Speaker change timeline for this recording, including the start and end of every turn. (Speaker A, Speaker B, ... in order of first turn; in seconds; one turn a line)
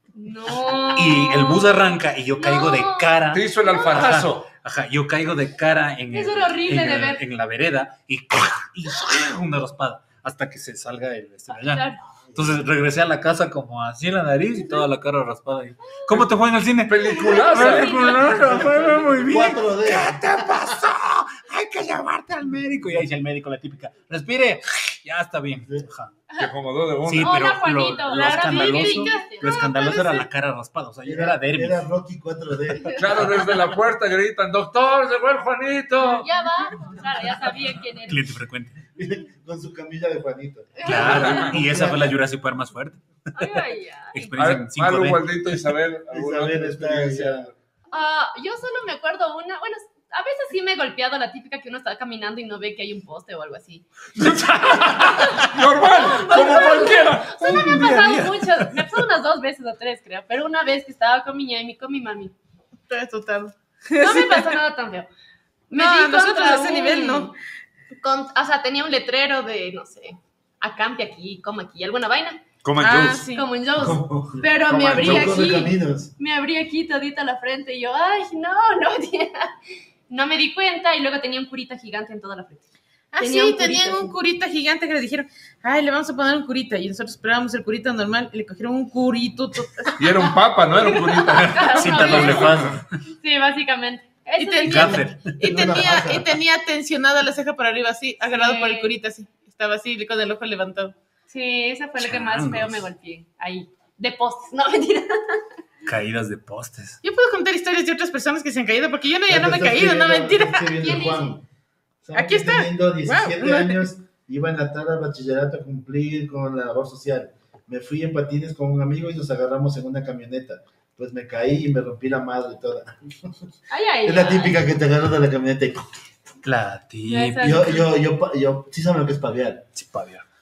Speaker A: 0.1-4.2
Speaker B: 0.8-26.2
Speaker C: 3.3-4.5
Speaker A: 6.1-7.2
Speaker A: 11.5-12.0
Speaker D: 12.2-12.7
Speaker C: 16.1-18.8
Speaker A: 17.0-18.6
Speaker D: 19.1-20.8
Speaker C: 26.3-27.5
Speaker B: 27.0-31.8
Speaker A: 27.2-30.2
Speaker E: 28.1-30.1
Speaker D: 31.0-33.3
Speaker C: 32.9-36.3
Speaker A: 36.0-38.2
Speaker B: 38.0-38.9
Speaker D: 38.9-42.2
Speaker A: 40.8-41.5
Speaker B: 40.8-43.6
Speaker C: 40.9-41.6
Speaker A: 43.4-44.4
Speaker B: 44.1-45.4
Speaker C: 44.4-47.5
Speaker D: 46.1-47.5
Speaker A: 47.9-53.8
Speaker C: 54.1-58.2
Speaker B: 54.2-55.5
Speaker A: 55.8-62.3
Speaker B: 56.3-56.9
Speaker B: 57.4-58.8
Speaker E: 62.9-64.6
Speaker A: 64.0-65.1
Speaker A: 65.7-67.3
Speaker E: 65.7-67.3
Speaker A: 67.9-72.4
Speaker C: 72.6-73.2
Speaker E: 72.8-73.5
Speaker A: 73.3-79.5
Speaker D: 73.7-76.1
Speaker C: 75.0-75.4
Speaker A: 80.1-82.7
Speaker E: 83.1-90.0
Speaker A: 83.2-84.1
Speaker C: 90.0-92.8
Speaker A: 90.7-95.0
Speaker B: 91.7-92.8
Speaker E: 94.3-100.9
Speaker B: 94.7-95.7
Speaker D: 94.8-96.3
Speaker A: 98.2-98.9
Speaker A: 101.3-105.4
Speaker B: 102.0-102.9
Speaker B: 105.8-107.0
Speaker E: 107.0-110.7
Speaker D: 109.3-111.4
Speaker A: 110.7-111.3
Speaker D: 112.0-123.5
Speaker E: 112.1-113.9
Speaker A: 123.7-124.6
Speaker D: 124.0-125.9
Speaker B: 126.4-127.6
Speaker A: 127.0-127.8
Speaker D: 127.4-129.7
Speaker B: 129.7-130.2